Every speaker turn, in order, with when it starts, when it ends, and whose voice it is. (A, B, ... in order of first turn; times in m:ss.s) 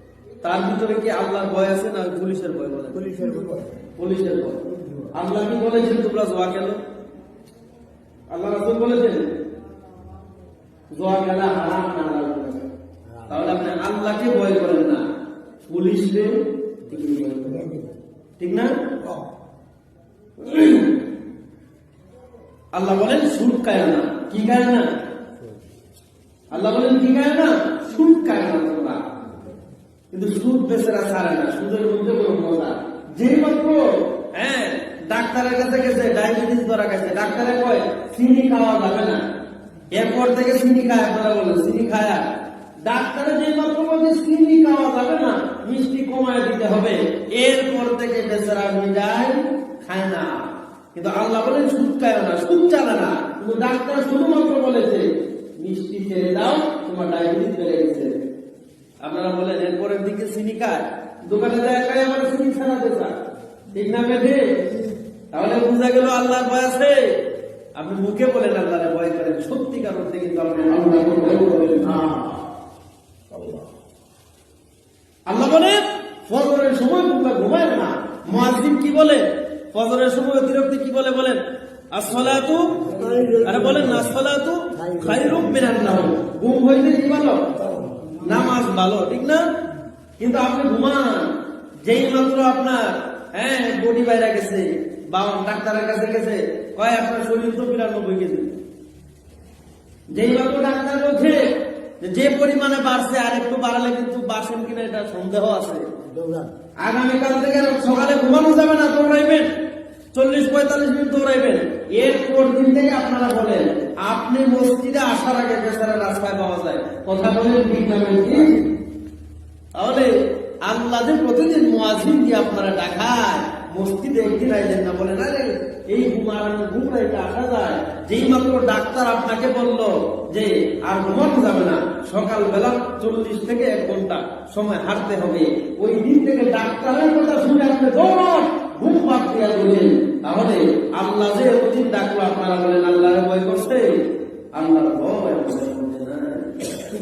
0:00.4-0:03.0 A
0:03.0-0:03.8 B
0:04.0-0:06.8 A
0:08.3-0:09.3 A
0:10.9-0:12.6 A
0:13.3-0:15.0 A
0:15.7-0:17.8 A
0:17.0-0:17.8 B
0:18.4-0:18.8 A
0:20.4-0:21.0 A
0:22.7-0:24.9 A
0:26.5-0:29.1 A
0:30.1-0:39.2 A
0:39.9-0:42.3 A
0:42.8-0:58.1 A
0:59.0-1:03.2 A
1:03.7-1:04.6 A
1:05.3-1:07.1 A
1:07.8-1:12.3 A
1:15.3-1:21.4 A
1:21.9-1:27.4 A
1:22.8-1:24.1 B
1:24.8-1:26.0 B
1:27.6-1:28.2 B
1:28.2-1:29.5 A
1:30.2-1:38.6 A
1:40.1-1:45.8 A
1:46.0-1:46.5 B
1:46.8-1:49.5 A
1:50.1-1:58.7 A
1:59.7-2:26.8 A